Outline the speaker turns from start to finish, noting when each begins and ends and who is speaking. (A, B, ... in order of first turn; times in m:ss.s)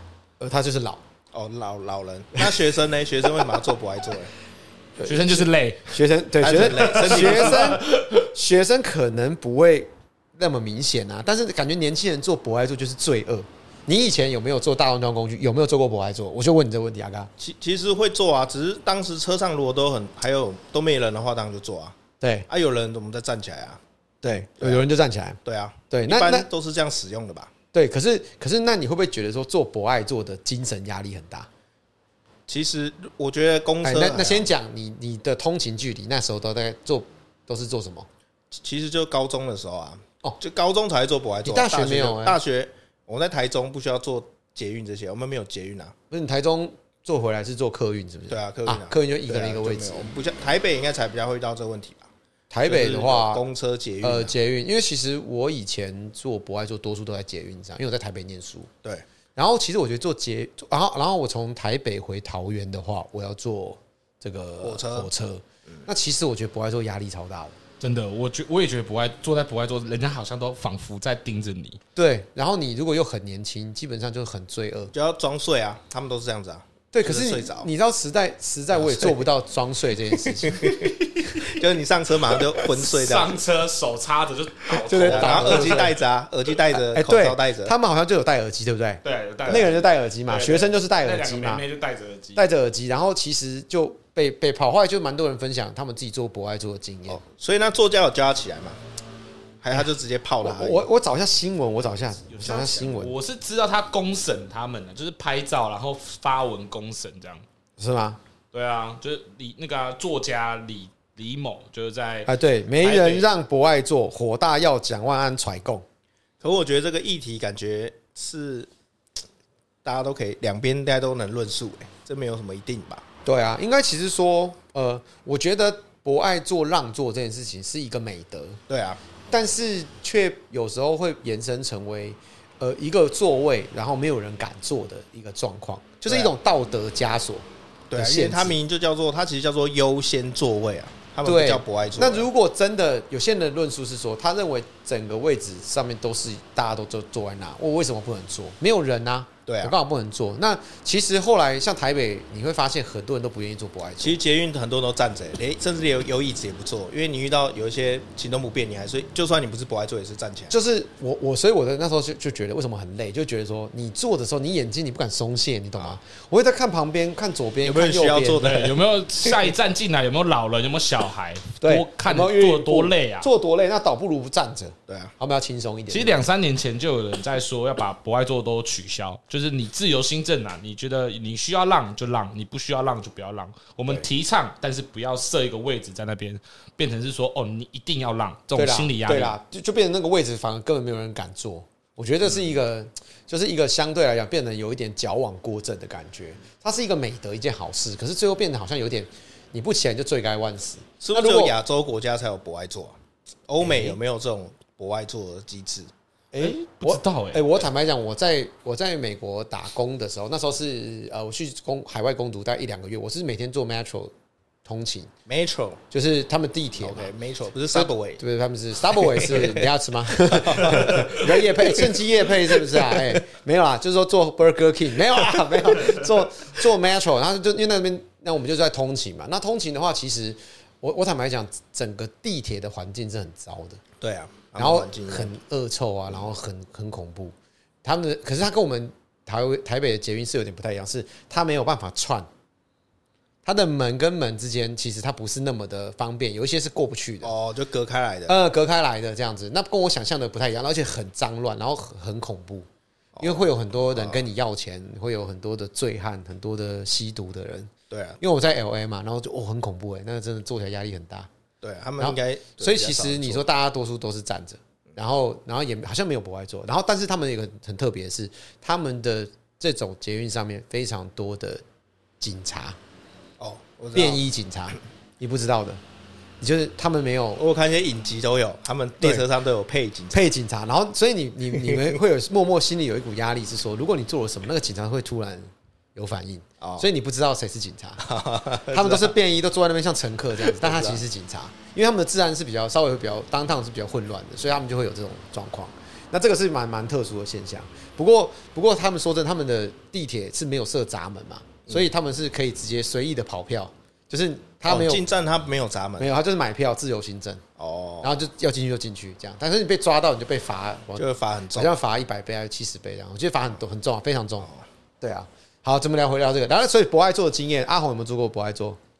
0:00.4-0:01.0 A
0:01.3-0:04.3 B
0:05.0-0:17.3 A
0:05.0-0:06.0 C
0:06.4-0:07.8 B
0:06.5-0:08.1 C
0:17.4-0:22.0 B
0:22.2-0:22.5 A
0:22.5-0:24.8 B
0:24.2-0:25.4 A
0:25.4-0:27.5 B
0:25.9-0:26.5 A
0:27.7-0:31.5 A
0:32.5-0:34.5 B
0:33.8-0:38.1 A
0:38.5-0:46.0 B
0:41.4-0:42.4 A
0:46.1-0:50.1 A
0:48.3-0:52.1 B
0:52.5-0:53.4 A
0:52.6-0:54.4 B
0:54.0-0:58.7 A
0:59.4-1:07.6 A
1:04.6-1:05.1 B
1:07.8-1:11.8 C
1:12.0-1:14.9 A
1:14.9-1:17.7 B
1:16.9-1:20.9 A
1:18.8-1:19.2 B
1:20.4-1:23.4 B
1:22.7-1:26.0 C
1:24.9-1:26.0 A
1:25.0-1:27.7 B
1:26.7-1:31.6 A
1:29.0-1:32.5 C
1:32.4-1:37.2 A
1:37.1-1:38.8 B
1:39.6-1:40.9 B
1:40.4-1:43.2 A
1:42.3-1:47.4 C
1:47.8-1:48.2 A
1:48.5-1:53.3 C
1:52.3-1:55.8 A
1:56.4-1:58.7 B
1:59.8-2:03.0 B
2:03.2-2:08.6 A
2:08.7-2:09.0 B
2:09.3-2:18.6 A
2:16.0-2:16.3 B
2:17.9-2:22.3 B
2:21.2-2:34.2 A
2:29.5-2:29.8 B
2:34.0-2:40.5 B
2:40.5-2:48.5 A
2:47.6-2:49.4 B
2:48.4-2:53.3 C
2:51.6-2:56.2 A
2:54.9-2:55.1 B
2:55.9-3:09.4 C
3:08.6-3:21.6 A
3:21.0-3:23.0 B
3:23.5-3:25.9 B
3:23.6-3:24.0 A
3:26.3-3:34.1 A
3:26.4-3:27.5 C
3:34.6-3:35.1 A
3:35.3-3:35.8 B
3:35.9-3:37.1 A
3:36.8-3:38.2 B
3:37.7-3:53.8 A
3:38.9-3:39.7 B
3:40.2-3:42.0 B
3:42.5-3:43.2 B
3:54.0-3:55.4 B
3:54.6-4:02.3 A
4:03.4-4:07.3 A
4:07.2-4:08.4 B
4:08.3-4:12.7 A
4:13.2-4:14.2 B
4:13.2-4:21.3 A
4:17.9-4:18.2 B
4:21.6-4:23.5 B
4:22.0-4:31.6 A
4:32.2-4:32.8 A
4:33.4-4:34.2 B
4:33.9-4:35.8 A
4:36.4-4:37.4 A
4:37.4-4:40.3 B
4:40.1-4:48.0 A
4:41.6-4:42.0 B
4:46.6-4:46.9 B
4:48.0-4:49.1 B
4:48.7-5:05.0 A
4:50.4-4:51.0 B
5:04.7-5:06.1 B
5:06.0-5:07.4 A
5:07.6-5:08.2 B
5:08.0-5:11.0 A
5:11.0-5:11.7 B
5:11.5-5:14.5 A
5:15.0-5:18.8 A